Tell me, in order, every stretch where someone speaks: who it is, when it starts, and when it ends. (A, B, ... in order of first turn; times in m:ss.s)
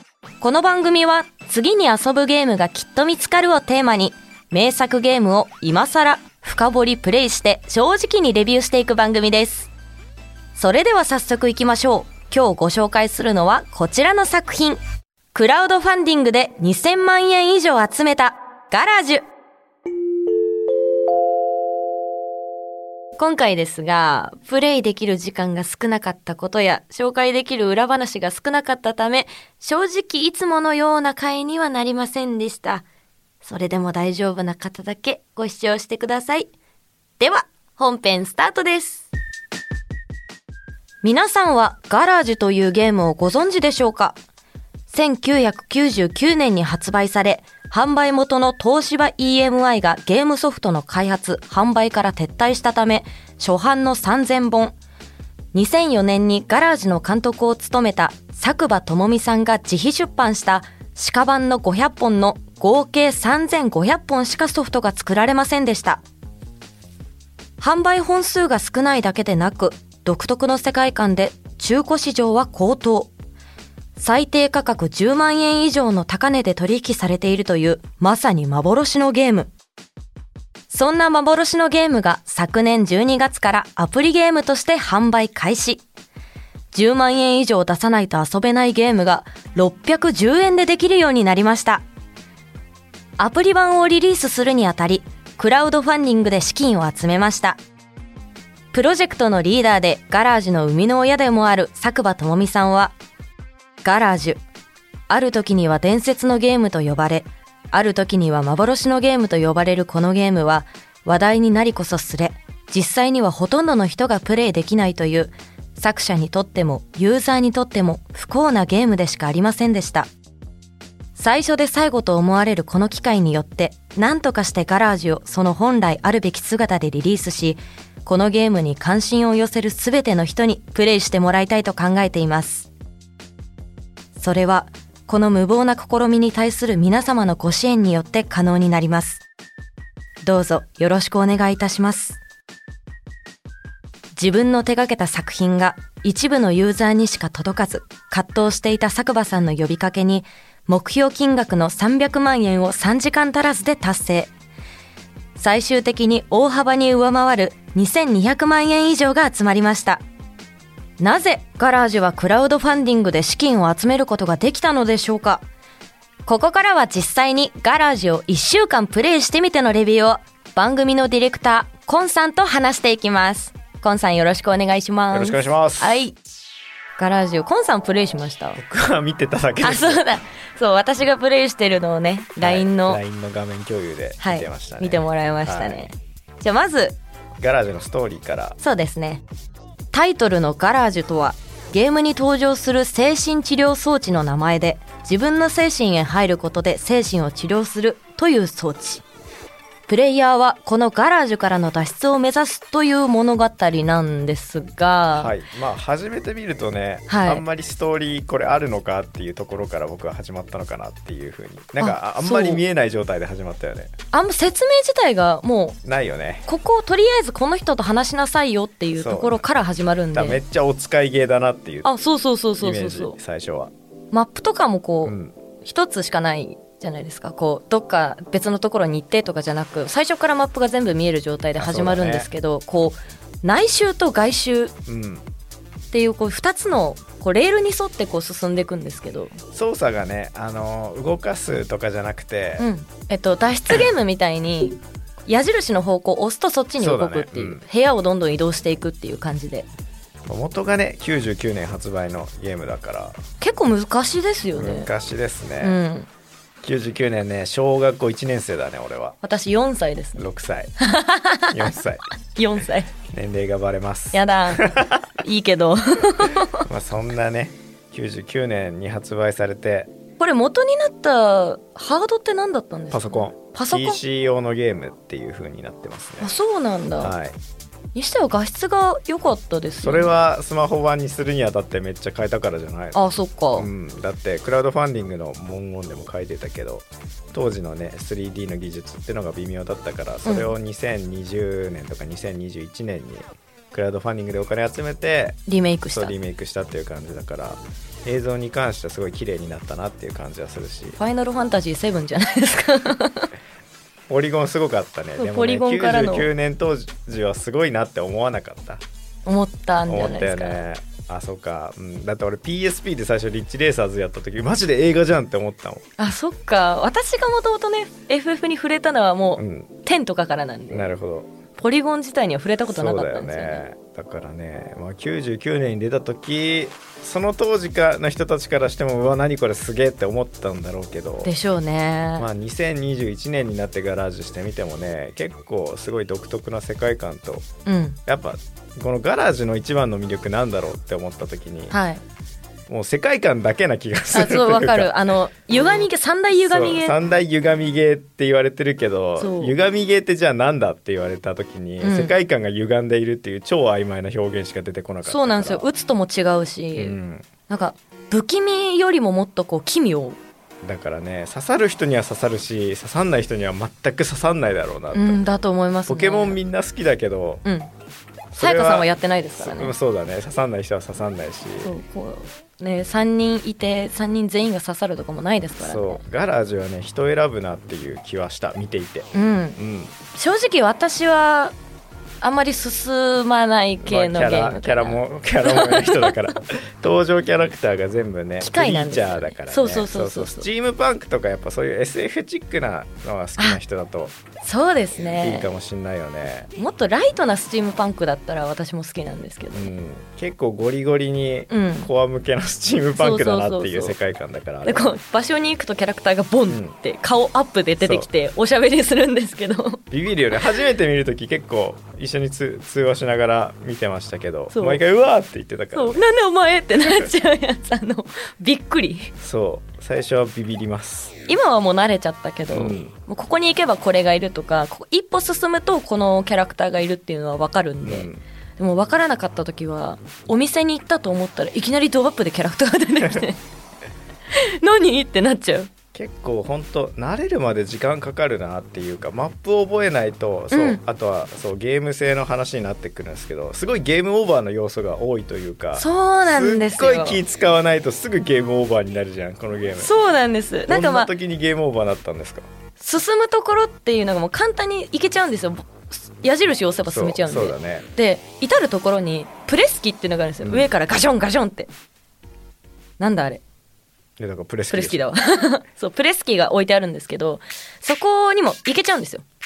0:00.4-0:09.7 A
0:10.6-0:14.8 A
0:15.3-0:19.2 A
0:23.2-0:32.8 A
0:33.4-0:36.5 A
0:37.2-0:39.1 A
0:41.0-0:44.2 A
0:44.9-0:54.7 A
0:55.5-1:06.0 A
1:07.6-1:13.1 A
1:14.0-1:19.5 A
1:20.7-1:25.8 A
1:26.7-1:31.8 A
1:33.2-1:37.6 A
1:38.7-1:42.9 A
1:43.8-1:44.4 A
1:45.1-2:00.1 A
2:01.2-2:12.7 A
2:14.2-2:19.2 A
2:20.2-2:22.2 A
2:24.2-2:34.3 A
2:35.4-2:40.0 A
2:41.0-2:45.4 A
2:46.2-2:56.2 A
2:55.1-2:55.9 B
2:57.0-2:58.6 A
2:58.6-3:00.0 B
2:59.6-3:03.0 A
3:02.4-3:05.9 B
3:04.2-3:07.0 A
3:07.4-3:08.6 B
3:08.6-3:09.2 A
3:09.9-3:19.0 A
3:19.9-3:25.3 A
3:25.1-3:33.9 B
3:27.1-3:27.4 A
3:31.8-3:32.6 A
3:34.1-3:35.8 A
3:35.8-3:36.4 B
3:36.4-3:40.4 A
3:39.0-3:39.4 B
3:40.1-3:41.9 B
3:41.8-3:43.2 A
3:42.6-3:43.7 B
3:44.1-3:54.7 A
3:45.0-3:45.3 B
3:51.6-3:52.3 B
3:54.8-3:55.2 B
3:55.9-3:59.4 A
3:59.5-4:02.7 B
4:02.6-4:09.7 A
4:06.8-4:07.6 B
4:10.3-4:13.2 B
4:13.4-4:14.9 A
4:14.5-4:15.8 B
4:15.6-4:16.1 A
4:16.6-4:19.2 B
4:19.2-4:20.3 A
4:20.2-4:20.7 B
4:20.8-4:21.7 A
4:21.5-4:22.0 B
4:22.4-4:22.9 A
4:23.1-4:25.0 B
4:24.1-4:26.7 A
4:26.6-4:29.9 B
4:30.2-4:34.0 A
4:32.9-4:36.3 B
4:36.2-4:37.1 A
4:37.0-4:37.4 B
4:37.9-4:40.1 A
4:39.8-4:43.0 B
4:42.9-4:43.7 A
4:43.5-4:55.4 B
4:50.2-4:50.5 A
4:55.5-4:56.1 A
4:55.9-5:01.0 B
5:01.0-5:03.3 A
5:04.1-5:08.8 B
5:05.2-5:06.3 A
5:09.2-5:10.6 A
5:09.9-5:15.8 B
5:16.0-5:20.9 A
5:19.4-5:19.7 B
5:20.7-5:21.3 B
5:21.6-5:23.6 A
5:22.6-5:31.3 B
5:31.2-5:32.3 A
5:32.2-5:37.5 B
5:37.6-5:38.0 A
5:38.0-5:41.8 B
5:41.7-5:42.0 A
5:42.7-5:45.1 B
5:44.1-5:46.9 A
5:46.4-5:55.7 B
5:49.2-5:49.5 A
5:51.8-5:52.1 A
5:55.0-5:57.0 A
5:56.8-5:57.3 B
5:57.5-6:00.2 A
6:00.6-6:05.2 B
6:04.9-6:06.4 A
6:05.9-6:07.4 B
6:07.4-6:07.7 A
6:08.3-6:11.7 B
6:08.4-6:09.7 A
6:11.6-6:16.0 A
6:15.6-6:19.9 B
6:19.1-6:19.6 A
6:20.1-6:21.5 A
6:22.2-6:26.3 A
6:23.8-6:34.2 B
6:28.4-6:30.5 A
6:34.4-6:35.5 A
6:35.2-6:36.5 B
6:36.6-6:39.7 A
6:39.5-6:44.9 B
6:41.5-6:41.9 A
6:43.0-6:44.0 A
6:44.6-6:49.8 A
6:46.5-6:46.7 B
6:47.8-6:48.1 B
6:49.9-6:56.0 B
6:54.5-6:54.8 A
6:55.7-6:59.1 A
6:59.2-7:01.2 B
7:01.3-7:13.4 A
7:02.5-7:02.9 B
7:07.8-7:08.2 B
7:14.3-7:15.7 A
7:15.9-7:29.9 B
7:20.5-7:20.8 A
7:25.8-7:27.2 A
7:29.8-7:31.1 A
7:30.7-7:32.5 B
7:32.8-7:41.7 A
7:36.8-7:37.8 B
7:40.4-7:40.7 B
7:43.0-7:43.4 A
7:44.2-7:45.0 B
7:44.7-7:49.2 A